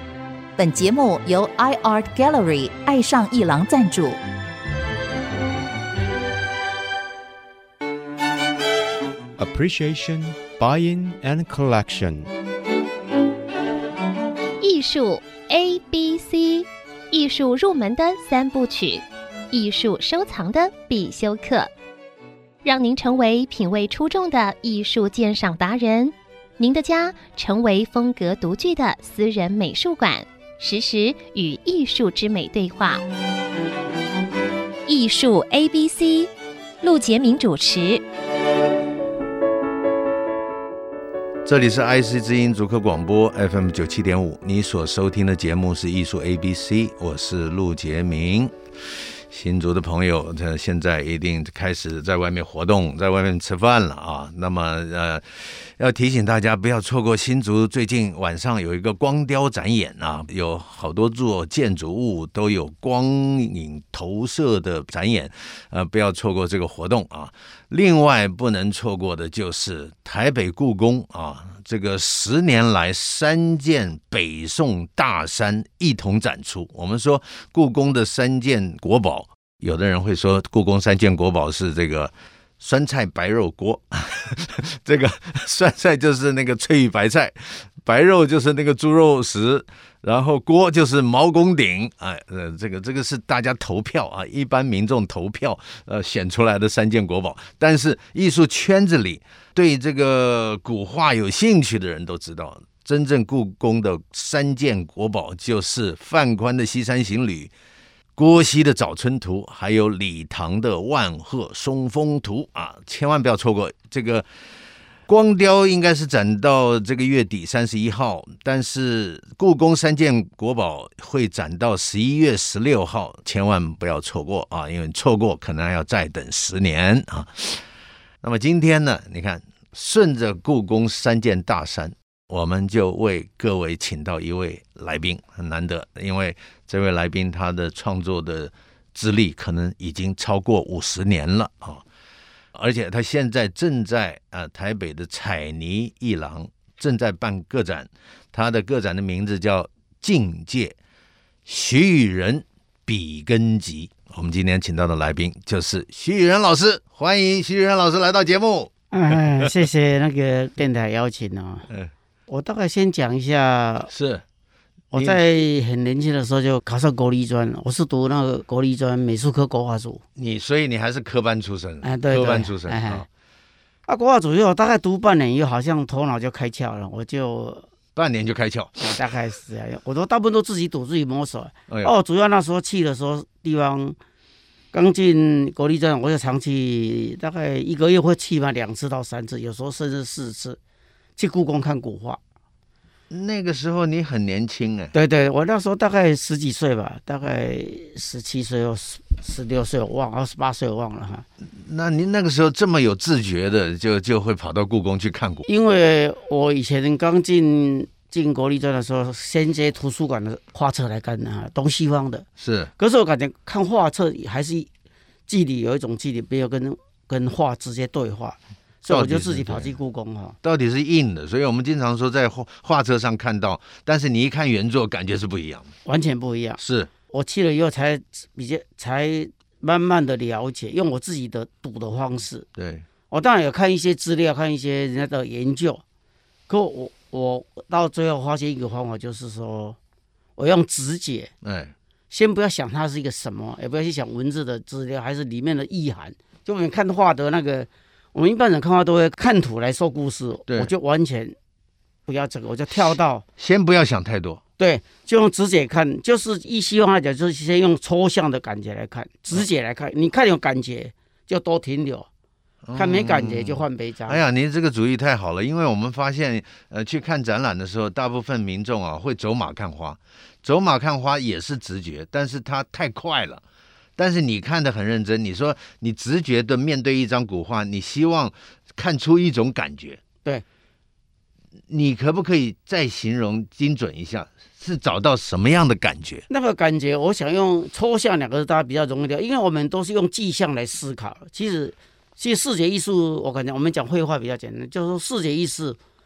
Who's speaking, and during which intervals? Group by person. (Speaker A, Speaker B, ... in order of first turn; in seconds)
Speaker A: 0.6-4.2
Speaker B: 9.4-12.3
Speaker C: 14.6-21.7, 22.6-33.0, 34.9-36.3, 36.8-38.0
Speaker D: 41.5-48.5, 49.3-107.5, 108.2-114.3, 115.1-127.6, 128.2-141.8, 142.5-150.8, 151.5-159.6, 163.9-164.2, 164.9-165.2, 170.2-173.1, 178.0-178.9, 193.1-194.9, 201.4-205.5, 212.4-212.7, 218.9-219.8, 220.4-225.7, 226.6-226.9, 232.6-232.8, 241.4-241.7, 253.4-254.4, 262.6-273.4, 274.0-280.0, 281.7-286.2
Speaker E: 158.9-161.7, 162.3-163.9, 164.9-170.0, 171.8-173.1, 173.9-177.7, 178.8-184.0, 184.7-190.6, 191.2-192.2, 194.9-201.2, 205.5-212.3, 212.8-214.7, 215.3-220.4, 225.8-232.5, 233.1-235.8, 236.5-239.8, 240.4-241.3, 242.1-251.4, 252.1-253.2, 254.6-262.1, 262.8-264.2, 286.3-295.8